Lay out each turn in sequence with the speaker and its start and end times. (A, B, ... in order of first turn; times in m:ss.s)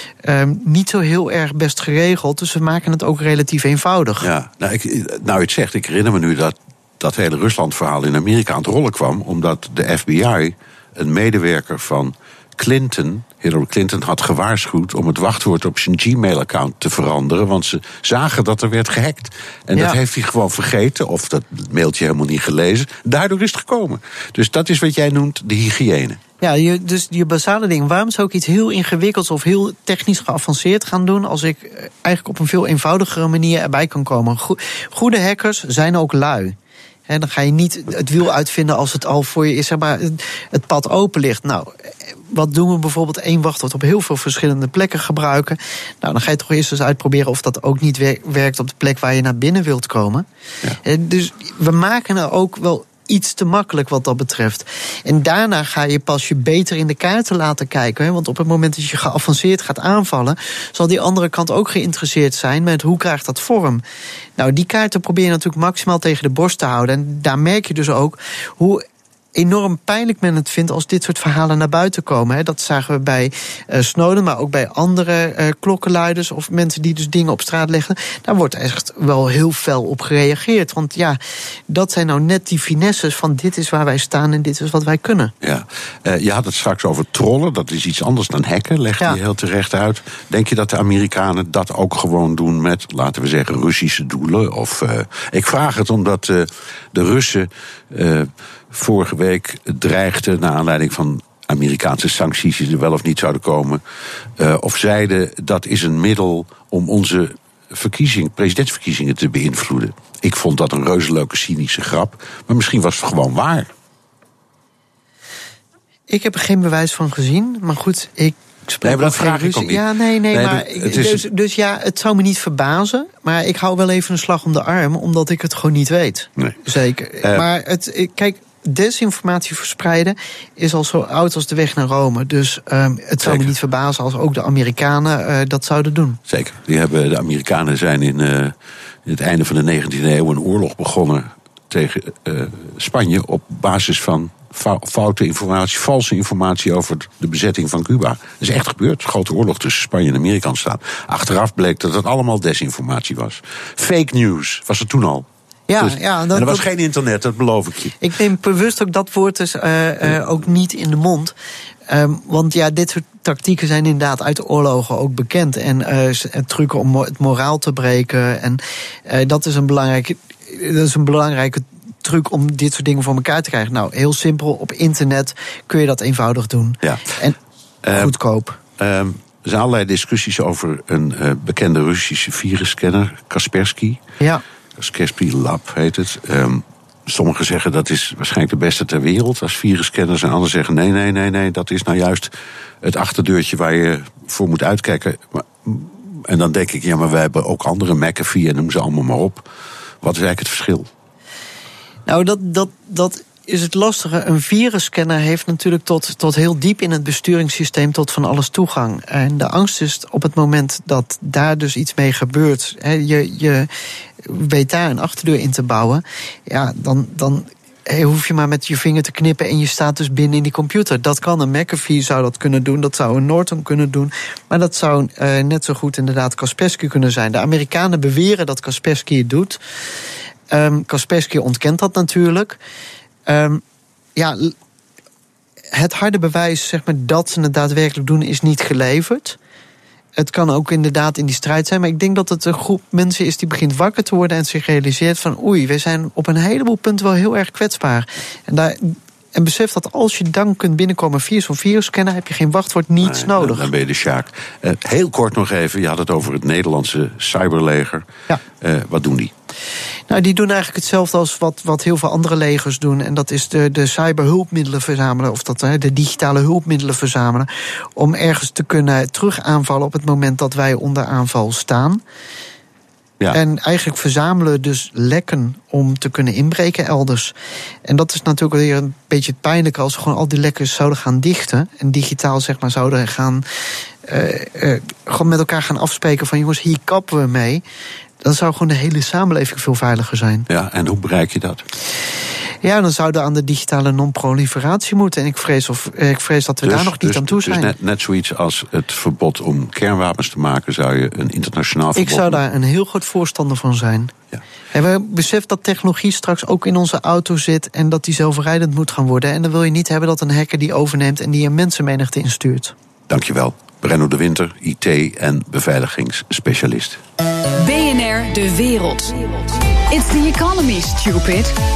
0:00.2-0:04.3 A
0:04.2-0:26.2 B
0:26.4-0:36.6 A
0:37.1-0:41.7 A
0:42.3-0:50.2 A
0:50.8-1:03.8 A
1:04.4-1:08.8 A
1:09.3-1:25.3 A
1:25.4-1:43.8 B
1:44.4-1:53.7 B
1:56.1-2:16.2 A
1:58.8-2:01.2 B
2:13.2-2:13.5 B
2:16.3-2:18.5 B
2:19.0-2:35.3 B
2:35.7-2:36.6 A
2:35.8-2:38.0 B
2:38.0-2:41.3 A
2:41.9-2:57.4 A
2:57.8-2:58.1 B
2:57.9-2:58.6 A
2:58.8-3:04.0 B
3:04.8-3:19.4 B
3:20.0-3:20.9 B
3:22.0-3:33.7 A
3:34.2-3:49.6 A
3:50.5-3:52.6 A
3:53.3-3:53.6 A
3:54.2-3:54.5 A
3:55.7-3:59.4 A
4:00.2-4:13.7 A
4:13.0-4:19.3 B
4:20.1-4:32.0 A
4:33.3-4:37.3 A
4:37.8-4:43.4 A
4:44.0-4:47.6 A
4:48.2-4:50.5 A
4:50.5-4:51.6 B
4:52.6-4:57.7 A
4:56.6-5:02.4 B
5:02.0-5:04.1 A
5:04.7-5:12.7 A
5:13.1-5:17.0 B
5:17.6-5:21.5 C